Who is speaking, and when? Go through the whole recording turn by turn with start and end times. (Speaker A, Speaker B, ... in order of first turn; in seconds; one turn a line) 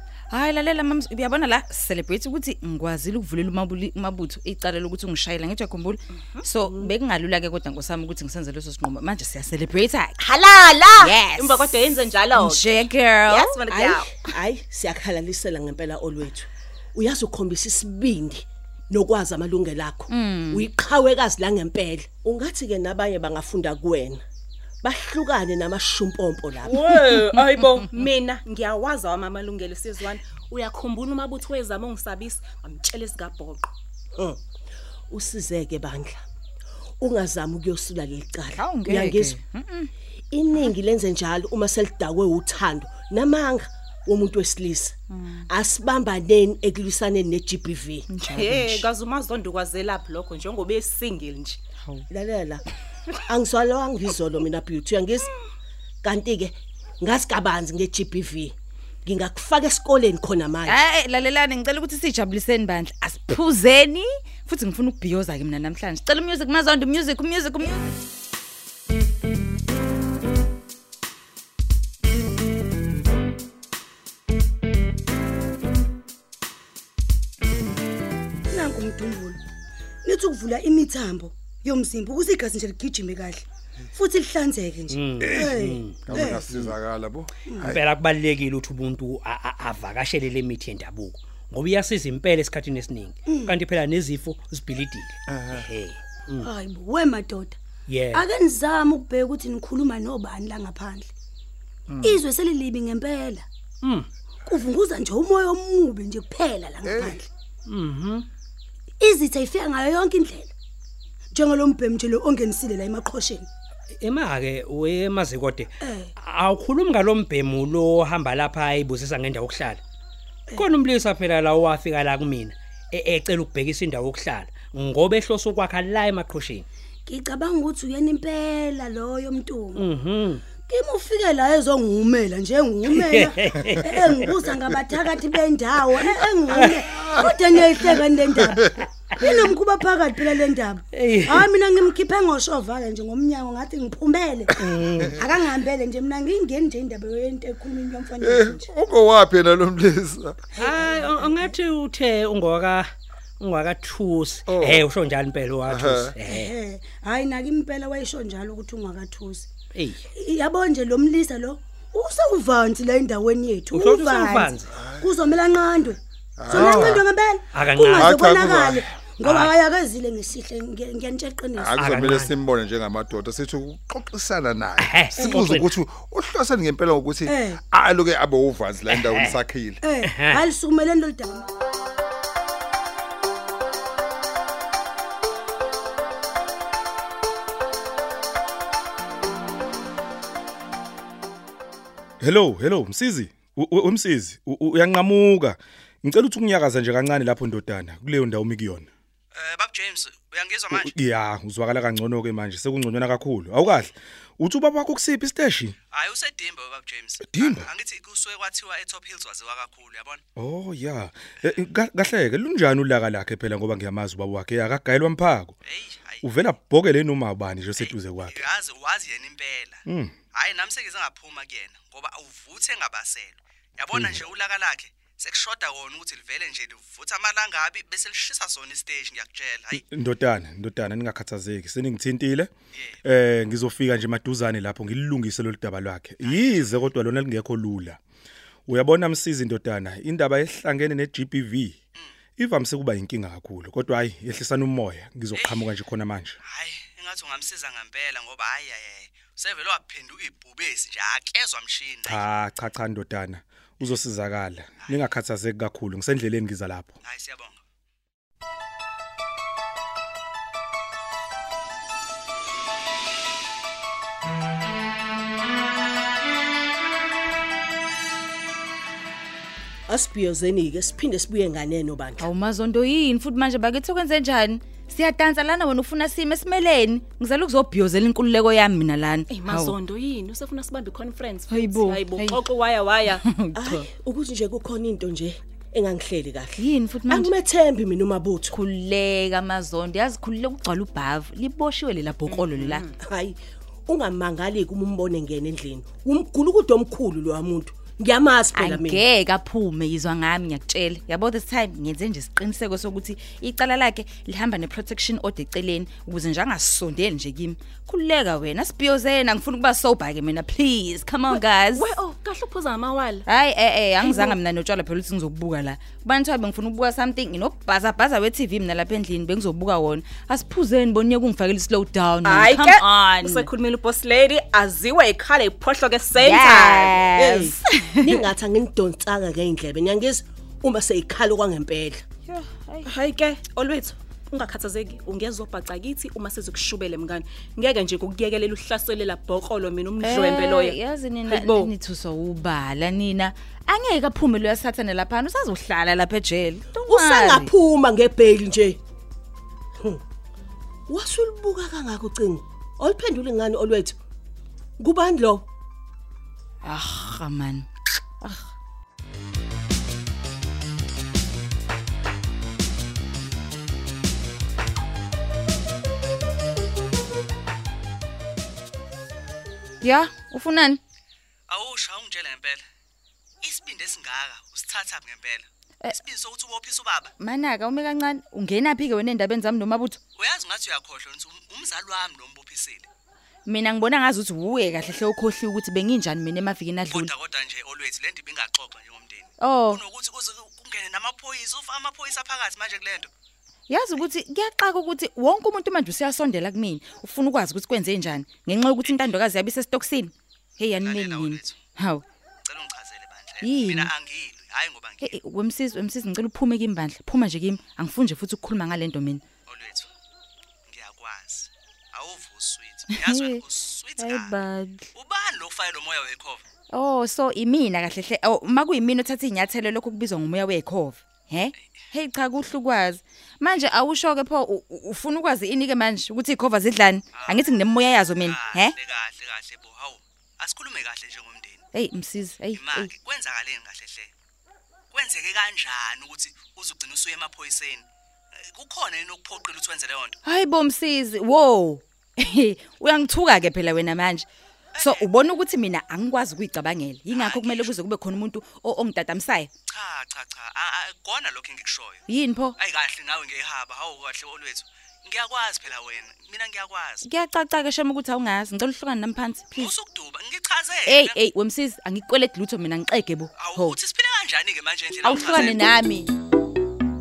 Speaker A: 0.3-10.2
Speaker B: 6.6-6.9
Speaker C: 10.2-14.1
Speaker A: 11.0-11.8
Speaker A: 12.3-13.5
Speaker B: 13.7-24.2
Speaker A: 20.1-20.7
Speaker B: 24.8-26.9
Speaker C: 26.7-33.7
Speaker B: 35.1-36.2
Speaker B: 37.0-39.4
Speaker A: 38.5-39.9
Speaker B: 40.3-48.1
Speaker A: 48.1-48.8
Speaker C: 48.3-51.6
Speaker B: 52.1-52.7
Speaker B: 53.2-55.3
Speaker B: 56.0-60.8
Speaker A: 60.7-67.8
Speaker D: 78.5-79.4
Speaker D: 80.0-86.4
Speaker E: 84.9-86.7
Speaker F: 85.2-87.8
Speaker E: 87.7-96.5
Speaker D: 93.3-93.5
Speaker F: 95.3-95.7
Speaker D: 96.4-97.6
Speaker E: 97.9-98.3
Speaker D: 98.1-101.1
Speaker F: 101.9-102.2
Speaker D: 102.0-103.5
Speaker E: 103.8-104.1
Speaker D: 104.5-107.3
Speaker F: 106.8-107.2
Speaker E: 107.7-108.3
Speaker D: 109.0-110.5
Speaker D: 111.3-113.5
Speaker E: 114.0-119.8
Speaker D: 115.8-116.1
Speaker E: 120.5-126.7
Speaker D: 127.1-129.8
Speaker E: 129.8-130.4
Speaker D: 130.6-144.6
Speaker E: 132.9-134.4
Speaker E: 136.0-136.8
Speaker F: 136.5-138.7
Speaker E: 138.8-139.3
Speaker E: 140.9-141.5
Speaker E: 144.6-145.1
Speaker F: 144.6-145.2
Speaker D: 145.1-148.7
Speaker F: 148.2-150.5
Speaker D: 150.6-151.6
Speaker E: 150.6-156.5
Speaker F: 154.5-154.9
Speaker F: 155.7-156.2
Speaker D: 156.2-159.5
Speaker E: 159.7-160.0
Speaker D: 160.1-171.7
Speaker E: 163.7-164.8
Speaker F: 164.7-165.3
Speaker F: 166.4-167.1
Speaker E: 166.6-167.0
Speaker E: 167.5-168.2
Speaker F: 167.9-169.1
Speaker E: 169.2-169.5
Speaker F: 171.6-179.8
Speaker E: 171.7-172.3
Speaker E: 174.8-175.7
Speaker D: 177.2-177.6
Speaker E: 178.9-179.4
Speaker D: 179.8-181.5
Speaker E: 180.0-180.4
Speaker G: 192.2-198.9
Speaker H: 199.3-200.9
Speaker G: 200.7-205.8
Speaker H: 205.9-210.2
Speaker G: 207.3-207.7
Speaker G: 210.4-215.6
Speaker H: 215.7-216.2
Speaker G: 216.2-218.5
Speaker H: 217.8-229.8
Speaker G: 219.9-220.2
Speaker G: 223.9-224.2
Speaker G: 229.7-232.5
Speaker G: 233.1-238.0
Speaker H: 236.2-236.8
Speaker G: 238.7-241.8
Speaker G: 242.4-246.4
Speaker H: 245.3-245.7
Speaker H: 246.4-252.3
Speaker G: 252.1-256.9
Speaker H: 254.8-255.1
Speaker H: 257.0-257.6
Speaker B: 269.9-272.3
Speaker A: 272.2-279.8
Speaker C: 279.3-283.2
Speaker A: 281.5-282.4
Speaker A: 283.1-283.8
Speaker B: 283.6-288.6
Speaker A: 286.6-287.3
Speaker A: 288.5-292.8
Speaker C: 292.5-292.9
Speaker B: 293.0-299.0
Speaker A: 298.5-311.9
Speaker C: 311.3-313.3
Speaker A: 313.3-323.4
Speaker C: 314.0-314.4
Speaker C: 322.2-327.1
Speaker A: 326.2-328.2
Speaker B: 327.1-332.1
Speaker A: 332.3-332.9
Speaker C: 332.8-341.7
Speaker A: 340.0-347.5
Speaker B: 346.8-348.8
Speaker B: 350.9-353.9
Speaker B: 354.8-355.4
Speaker A: 356.6-357.7
Speaker A: 369.8-370.8
Speaker H: 371.5-372.7
Speaker H: 373.4-377.1
Speaker A: 377.2-380.0
Speaker H: 380.2-382.9
Speaker A: 383.5-387.1
Speaker H: 386.9-393.1
Speaker A: 389.4-389.8
Speaker A: 393.7-402.0
Speaker H: 400.8-401.6
Speaker H: 402.5-405.2
Speaker A: 403.4-403.9
Speaker A: 405.0-409.2
Speaker H: 409.5-409.9
Speaker H: 410.7-414.3
Speaker A: 412.9-413.4
Speaker A: 414.0-414.9
Speaker H: 414.9-416.4
Speaker A: 416.7-428.7
Speaker H: 427.1-427.5
Speaker H: 428.2-431.7
Speaker A: 431.7-432.9
Speaker H: 432.5-434.1
Speaker H: 434.9-437.9
Speaker H: 438.4-440.2
Speaker A: 440.2-444.3
Speaker H: 444.8-445.1
Speaker A: 444.8-449.5
Speaker H: 447.1-447.7
Speaker H: 449.7-452.1
Speaker A: 452.1-452.6
Speaker H: 452.6-457.0
Speaker A: 457.0-459.7
Speaker H: 459.5-461.2
Speaker A: 460.9-463.8
Speaker H: 463.4-465.7
Speaker A: 465.0-466.1